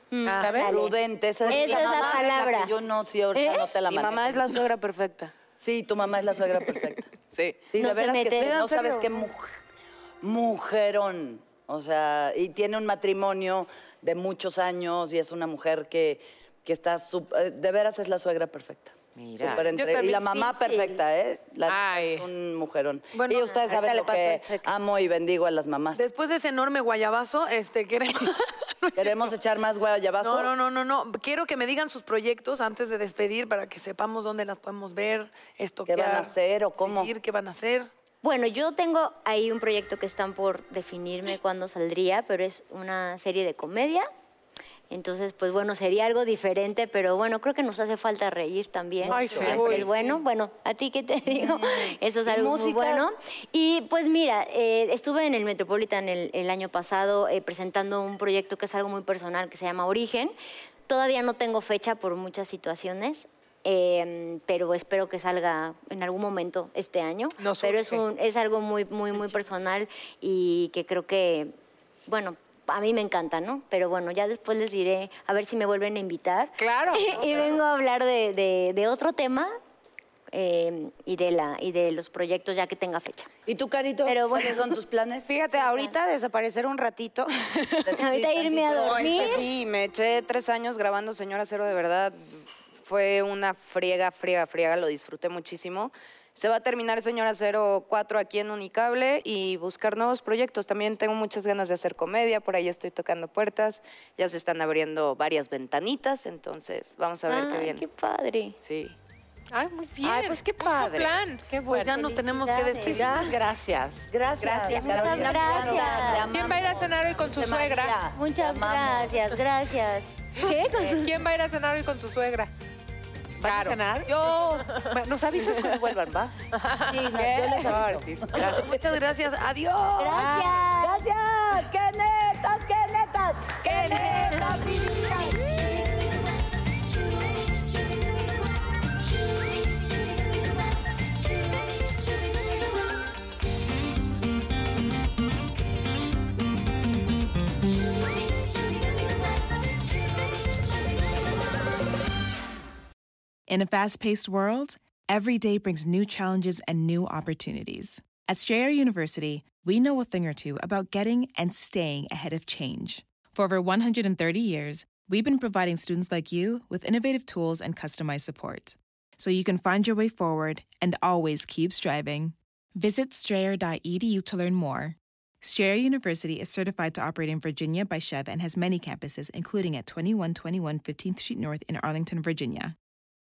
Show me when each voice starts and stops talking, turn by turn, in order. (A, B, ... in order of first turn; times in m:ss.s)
0:00.1-0:01.0 A
0:00.2-0:00.7 B
0:00.4-0:00.7 C
0:00.6-0:04.6 D
0:01.5-0:02.7 A
0:03.3-0:03.6 A
0:03.8-0:05.3 E
0:05.6-0:07.1 D
0:07.3-0:07.7 E
0:07.7-0:09.6 D
0:07.8-0:08.5 A
0:08.4-0:09.1 E
0:10.2-0:26.0 D
0:19.2-0:19.6 C
0:19.5-0:20.6 B
0:20.0-0:21.0 A
0:21.6-0:22.2 B
0:23.1-0:24.1 F
0:23.6-0:24.7 E
0:25.9-0:29.3 F
0:28.9-0:30.5 D
0:30.2-0:36.3 F
0:35.9-0:37.1 D
0:36.8-0:37.9 F
0:38.2-0:44.1 A
0:44.9-1:00.3 A
0:49.0-0:49.9 D
0:49.1-0:50.2 F
0:49.2-0:49.9 B
0:51.2-0:53.1 D
1:00.9-1:11.5 A
1:07.4-1:08.0 B
1:12.1-1:19.5 A
1:16.6-1:17.6 B
1:20.3-1:23.3 A
1:23.4-1:25.3 D
1:24.0-1:24.7 A
1:25.2-1:27.9 E
1:25.5-1:25.9 A
1:27.8-1:29.3 D
1:27.9-1:29.5 A
1:28.6-1:47.8 E
1:47.3-1:48.6 A
1:48.6-1:49.0 E
1:49.5-1:51.8 B
1:50.0-1:52.0 C
1:51.7-1:53.4 F
1:51.8-1:53.2 A
1:52.8-1:55.6 C
1:54.1-1:59.4 D
1:54.7-1:56.3 A
1:56.1-1:58.0 B
1:58.1-2:01.2 A
2:00.4-2:02.5 B
2:03.4-2:04.2 C
2:03.4-2:04.1 B
2:04.2-2:04.6 F
2:04.8-2:06.3 C
2:06.5-2:07.6 B
2:06.8-2:08.4 D
2:07.6-2:08.8 C
2:08.4-2:10.4 F
2:10.0-2:11.0 A
2:10.1-2:10.6 C
2:10.8-2:15.6 D
2:13.6-2:14.6 A
2:33.5-3:02.7 G